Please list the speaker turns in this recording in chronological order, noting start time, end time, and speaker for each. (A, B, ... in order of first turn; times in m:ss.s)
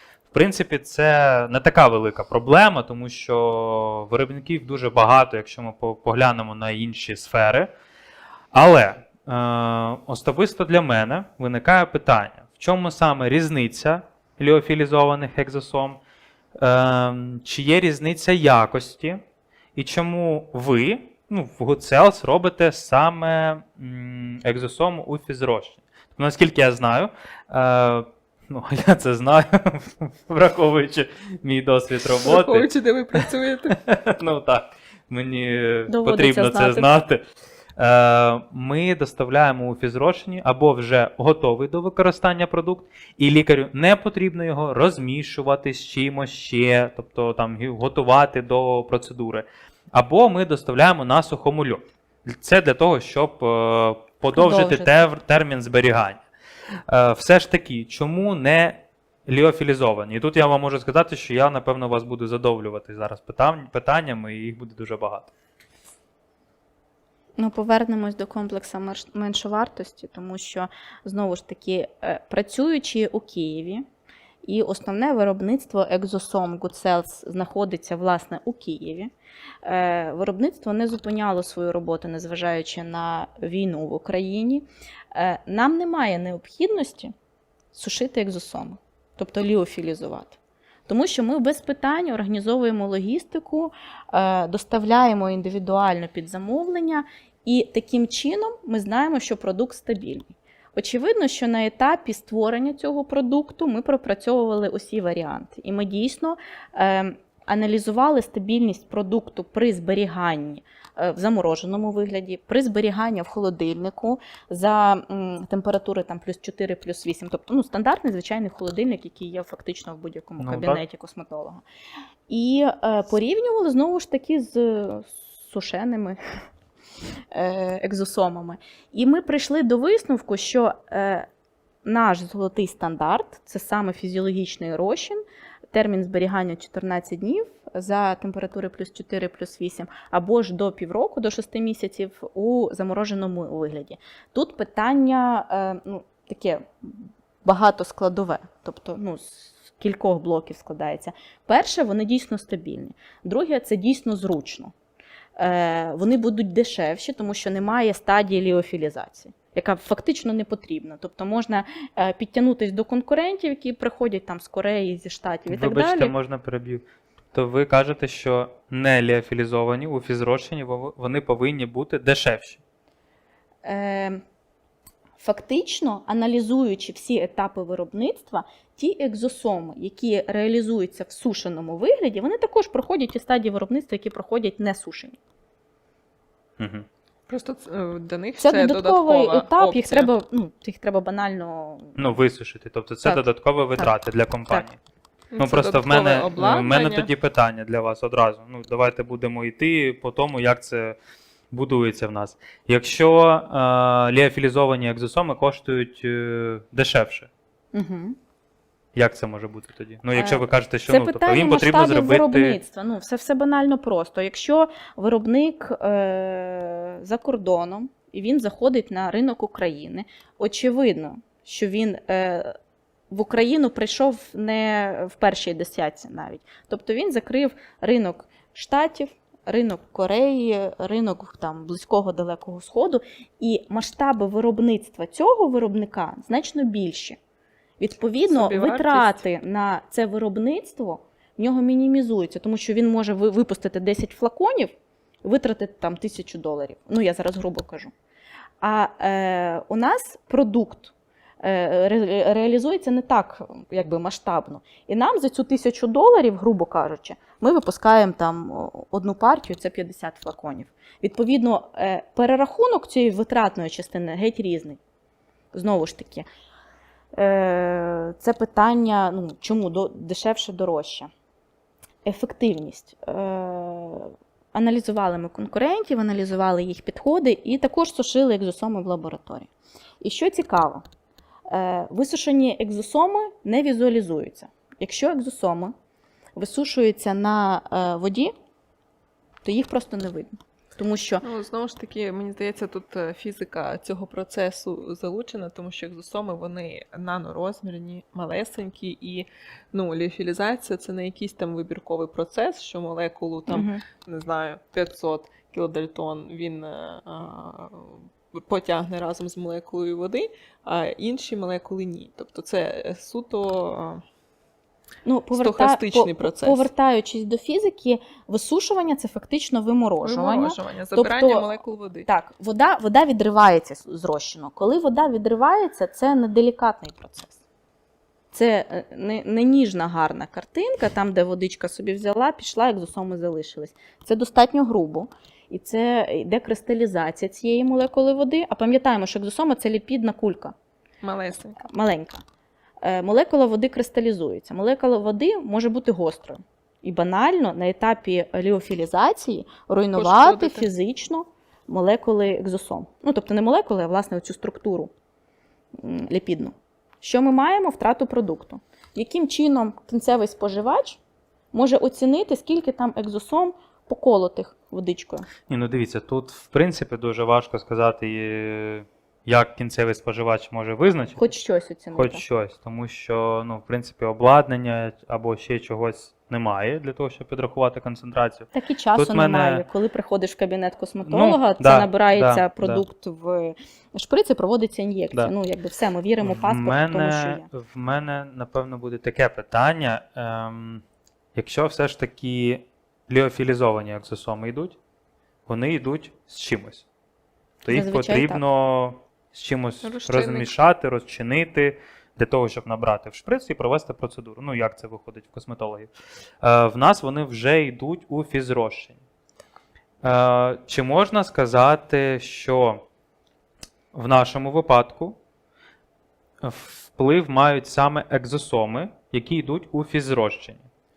0:00.3-0:07.7 A
0:08.5-0:16.0 A
0:16.6-0:19.2 A
0:19.7-0:32.7 A
0:32.2-0:33.8 B
0:33.9-0:37.2 A
0:35.9-0:36.9 C
0:37.8-0:56.2 A
0:54.3-0:55.1 C
0:56.9-1:05.3 A
1:07.4-1:13.8 C
1:14.4-1:19.1 C
1:19.6-1:27.1 C
1:27.7-2:01.6 C
2:00.4-2:00.8 A
2:02.3-2:06.2 C
2:07.3-2:11.2 C
2:11.8-2:34.7 C
2:35.4-2:46.1 C
2:45.5-2:52.6 A
2:53.6-2:54.2 C
2:55.2-3:05.2 C
3:06.6-3:06.8 A
3:07.3-3:10.1 B
3:08.4-3:12.0 C
3:12.0-3:14.8 A
3:15.3-3:17.1 B
3:15.4-3:21.0 A
3:21.5-3:27.3 A
3:27.7-3:28.2 C
3:28.9-3:32.6 A
3:30.1-3:42.5 C
3:43.1-3:57.2 C
3:57.8-4:07.9 C
3:58.2-3:59.2 B
4:08.6-4:24.8 C
4:25.5-4:26.3 C
4:27.1-4:31.1 C
4:32.0-4:39.5 C
4:40.0-4:40.8 C
4:41.5-4:45.7 C
4:46.3-4:48.3 C
4:49.4-4:51.2 C
4:51.2-5:14.0 B
5:03.5-5:03.8 C
5:15.0-5:21.5 C
5:15.3-5:16.7 B
5:20.0-5:22.1 B
5:22.0-5:27.4 C
5:28.3-5:40.5 C
5:41.0-5:41.6 B
5:41.6-5:42.2 C
5:42.8-5:54.9 C
5:49.9-5:50.7 B
5:55.7-6:01.0 C
6:01.5-6:05.3 C
6:05.5-6:11.3 A
6:11.2-6:12.2 C
6:11.9-6:19.6 A
6:18.5-6:27.5 C
6:21.0-6:22.8 A
6:26.2-6:30.8 A
6:31.3-6:34.8 A
6:35.4-6:36.8 A
6:37.6-6:45.9 A
6:37.7-6:38.4 C
6:39.8-6:40.6 B
6:46.4-6:49.0 A
6:50.0-6:52.8 A
6:53.9-6:55.2 A
6:56.4-7:00.7 A